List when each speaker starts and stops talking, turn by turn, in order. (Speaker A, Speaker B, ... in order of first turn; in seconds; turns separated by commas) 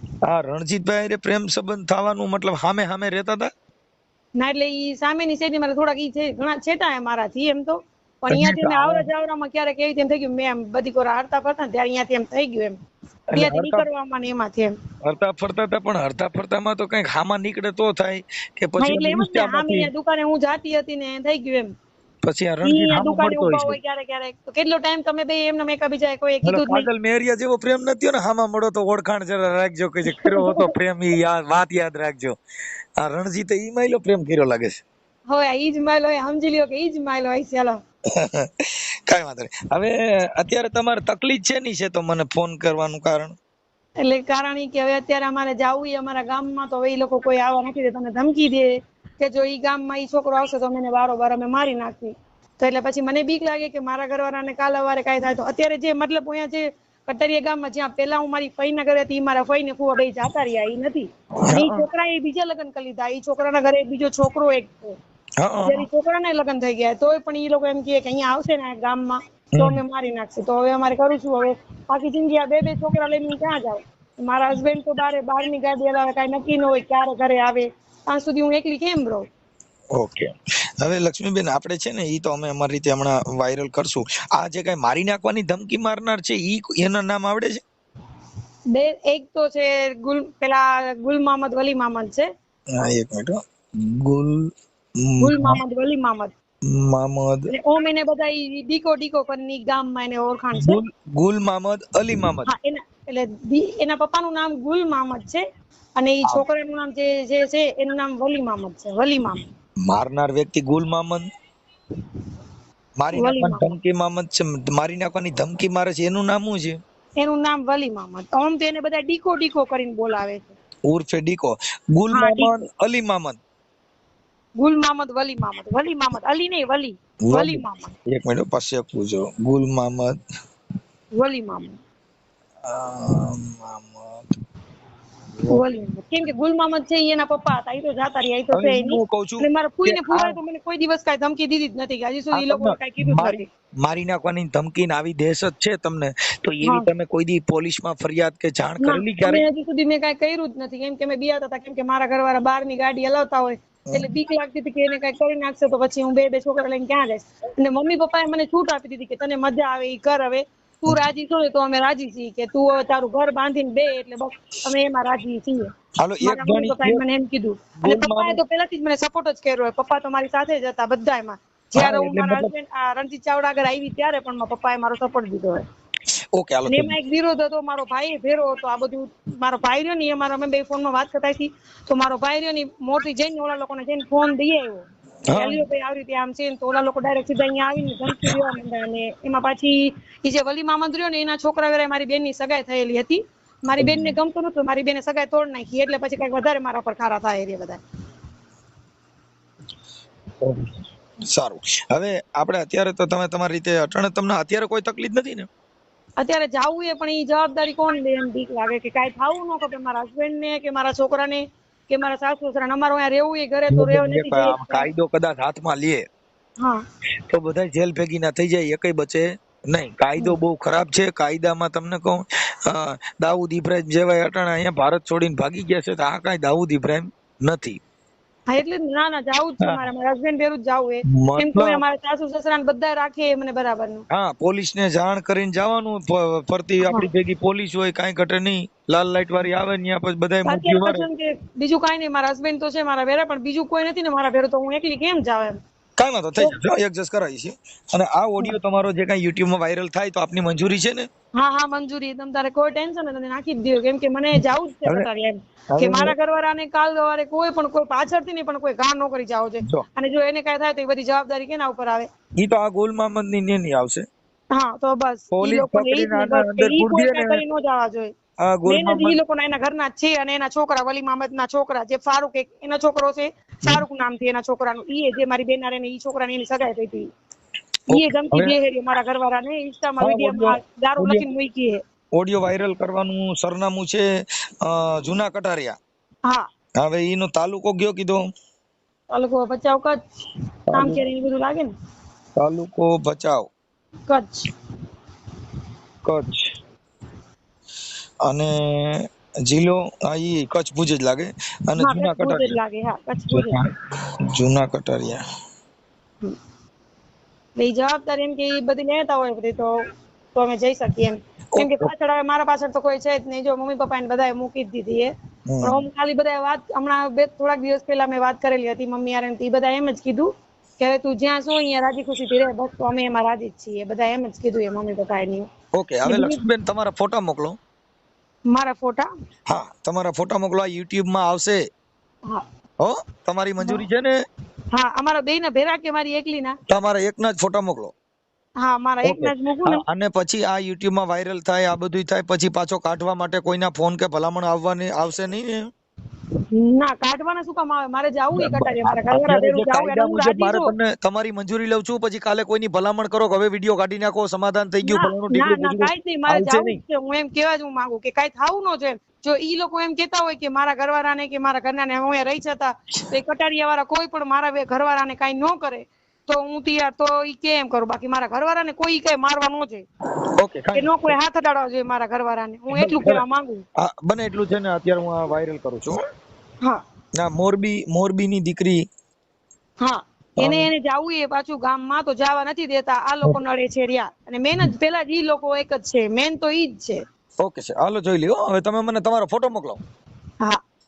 Speaker A: 0.2-3.5, Speaker B: 4.4-12.8, Speaker A: 8.3-9.0, Speaker A: 13.3-13.8, Speaker B: 13.3-14.7, Speaker A: 15.0-19.9, Speaker B: 18.8-21.7, Speaker A: 22.2-23.8, Speaker B: 22.6-26.9, Speaker A: 26.4-32.4, Speaker B: 30.1-30.7, Speaker A: 33.0-34.7, Speaker B: 35.3-37.8, Speaker A: 38.2-38.5, Speaker A: 39.1-43.3, Speaker B: 44.0-65.0, Speaker A: 61.5-61.8, Speaker A: 65.4-65.8, Speaker B: 65.6-79.2, Speaker A: 80.0-87.6, Speaker B: 88.7-92.3, Speaker A: 92.7-94.4, Speaker A: 95.0-95.6, Speaker B: 95.2-96.3, Speaker A: 96.7-97.5, Speaker B: 97.5-100.8, Speaker A: 100.6-102.5, Speaker B: 102.5-105.4, Speaker B: 106.0-109.4, Speaker A: 109.9-111.2, Speaker A: 113.0-116.7, Speaker B: 113.1-113.7, Speaker B: 117.2-120.5, Speaker A: 120.9-123.4, Speaker B: 122.1-122.5, Speaker B: 124.6-127.9, Speaker A: 127.2-130.1, Speaker B: 131.2-131.8, Speaker A: 132.7-134.2, Speaker A: 135.4-135.6, Speaker B: 135.5-143.4, Speaker A: 138.5-140.4, Speaker A: 142.3-149.4, Speaker B: 148.8-165.7, Speaker A: 166.0-167.0, Speaker B: 166.2-175.6, Speaker A: 167.8-168.4, Speaker A: 171.7-172.5, Speaker A: 176.3-176.9, Speaker B: 176.7-197.8, Speaker A: 185.3-185.6, Speaker A: 193.8-194.1, Speaker A: 200.4-205.5, Speaker B: 206.2-214.9, Speaker A: 213.7-216.0, Speaker A: 217.3-227.8, Speaker B: 228.5-234.0, Speaker A: 231.1-231.8, Speaker A: 234.1-241.1, Speaker B: 240.5-245.6, Speaker A: 246.0-251.1, Speaker B: 251.4-262.1, Speaker A: 255.7-256.1, Speaker A: 262.4-264.0, Speaker B: 264.5-268.1, Speaker A: 265.3-267.4, Speaker A: 268.4-269.2, Speaker B: 268.6-277.1, Speaker A: 277.9-278.5, Speaker B: 277.9-281.8, Speaker A: 280.0-281.3, Speaker A: 282.1-284.0, Speaker A: 284.6-285.7, Speaker A: 286.8-288.2, Speaker B: 289.1-290.2, Speaker A: 290.7-291.0, Speaker B: 290.7-291.7, Speaker A: 292.4-293.5, Speaker B: 294.1-294.5, Speaker A: 296.0-296.5, Speaker A: 298.2-302.6, Speaker B: 301.8-303.6, Speaker A: 303.3-303.7, Speaker A: 304.3-305.2, Speaker B: 307.6-309.7, Speaker B: 310.3-315.1, Speaker A: 311.5-311.9, Speaker A: 315.5-315.8, Speaker B: 315.6-325.5, Speaker A: 325.7-327.6, Speaker B: 326.1-326.4, Speaker B: 328.5-329.1, Speaker A: 329.5-331.6, Speaker A: 332.8-334.1, Speaker B: 334.7-336.5, Speaker A: 336.7-337.9, Speaker B: 338.6-339.8, Speaker A: 339.0-345.6, Speaker B: 346.5-350.7, Speaker A: 348.4-356.8, Speaker B: 354.9-369.8, Speaker A: 370.4-371.1, Speaker B: 370.7-373.6, Speaker A: 372.7-373.2, Speaker A: 373.8-376.0, Speaker A: 377.2-378.8, Speaker B: 379.8-387.0, Speaker A: 380.4-380.7, Speaker A: 387.4-389.8